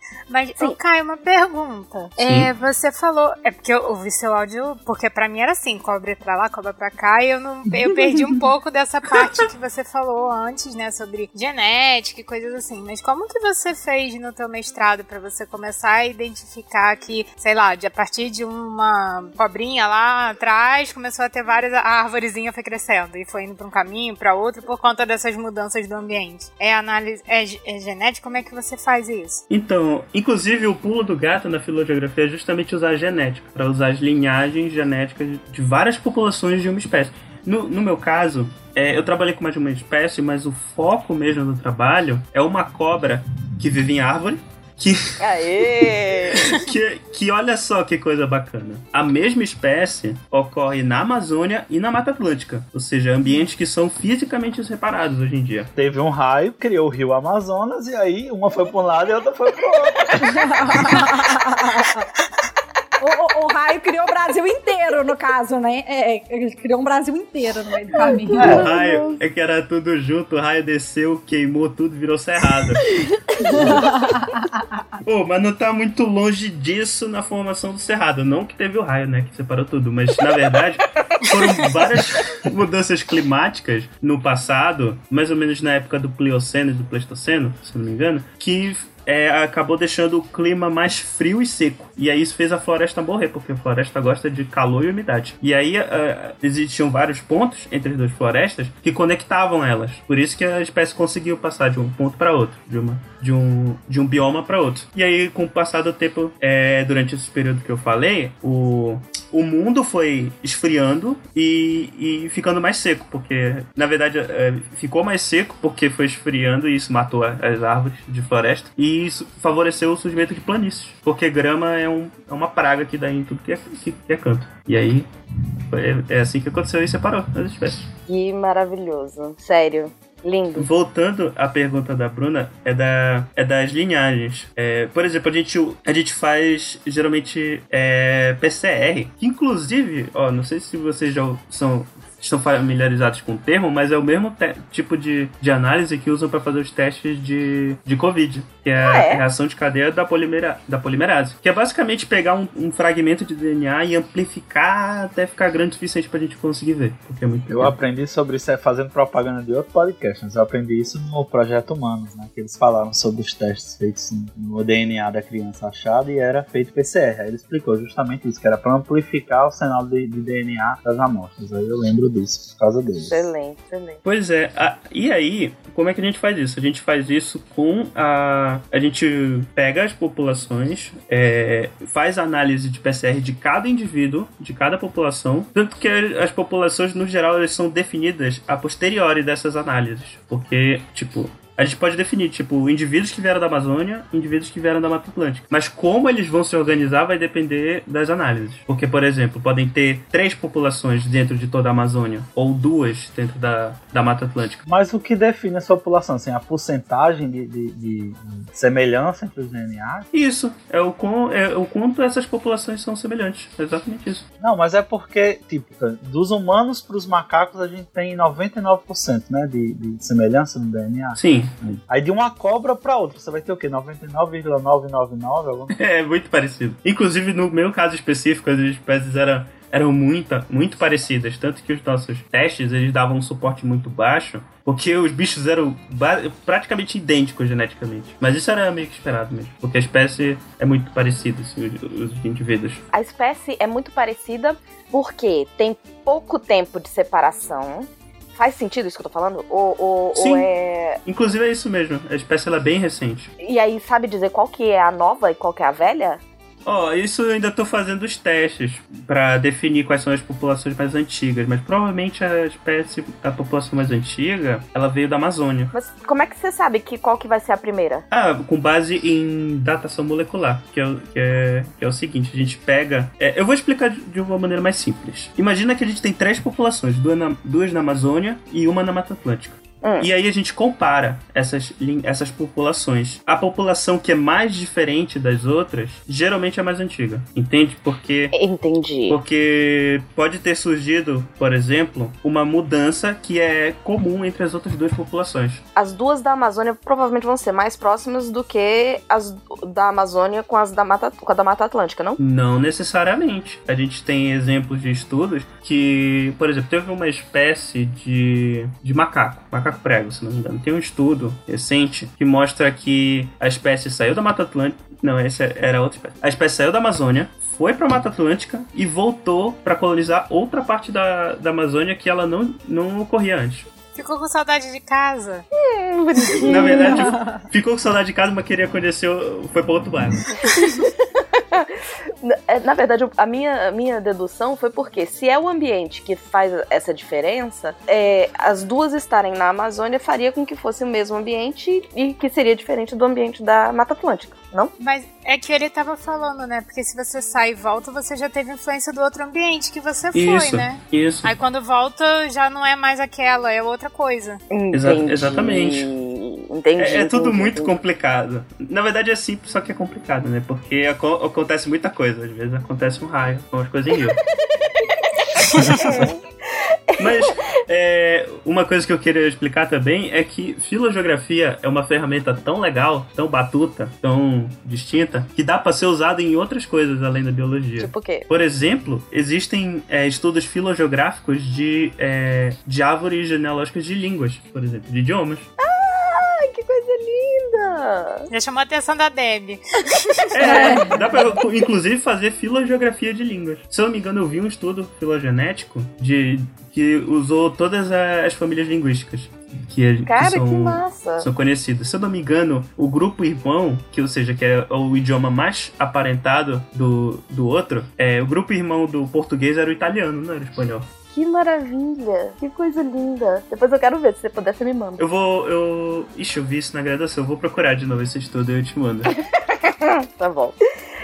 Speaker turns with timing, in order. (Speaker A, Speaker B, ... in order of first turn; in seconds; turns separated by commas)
Speaker A: 0.3-29.4, Speaker B: 2.2-2.5, Speaker B: 29.5-45.1, Speaker C: 45.2-46.6, Speaker B: 46.3-55.7, Speaker D: 55.8-60.8, Speaker E: 60.2-62.1, Speaker E: 63.0-68.6, Speaker C: 68.0-69.2, Speaker D: 68.4-68.7, Speaker B: 68.5-72.9, Speaker E: 73.4-74.6, Speaker B: 75.0-125.1, Speaker B: 125.7-127.9, Speaker C: 128.1-130.7, Speaker B: 130.6-157.7, Speaker C: 148.8-149.2, Speaker D: 157.5-173.3, Speaker C: 173.0-174.0, Speaker B: 174.0-204.6, Speaker D: 204.7-210.1, Speaker B: 210.1-214.2, Speaker D: 214.4-225.7, Speaker B: 221.2-221.5, Speaker B: 225.7-242.8, Speaker C: 242.9-251.0, Speaker B: 250.2-250.5, Speaker B: 251.0-253.3, Speaker C: 253.4-256.2, Speaker B: 256.6-265.7, Speaker C: 265.7-268.0, Speaker B: 268.1-288.3, Speaker C: 288.3-289.2, Speaker B: 289.1-295.6, Speaker C: 295.8-302.2, Speaker B: 302.2-323.7, Speaker A: 323.9-325.4, Speaker C: 325.5-327.1, Speaker E: 326.3-327.4, Speaker B: 326.4-330.3, Speaker C: 330.4-344.7, Speaker A: 344.8-354.4, Speaker B: 350.1-351.3, Speaker C: 354.5-357.8, Speaker B: 354.7-355.9, Speaker B: 356.8-364.2, Speaker C: 365.4-366.2, Speaker C: 366.9-367.3, Speaker B: 367.0-385.5, Speaker C: 377.8-378.2, Speaker C: 385.6-388.2, Speaker A: 388.3-390.3, Speaker B: 390.3-410.9, Speaker C: 390.4-390.9, Speaker E: 390.4-391.0, Speaker C: 400.1-401.3, Speaker C: 411.1-415.0, Speaker B: 415.0-419.1, Speaker C: 419.5-420.6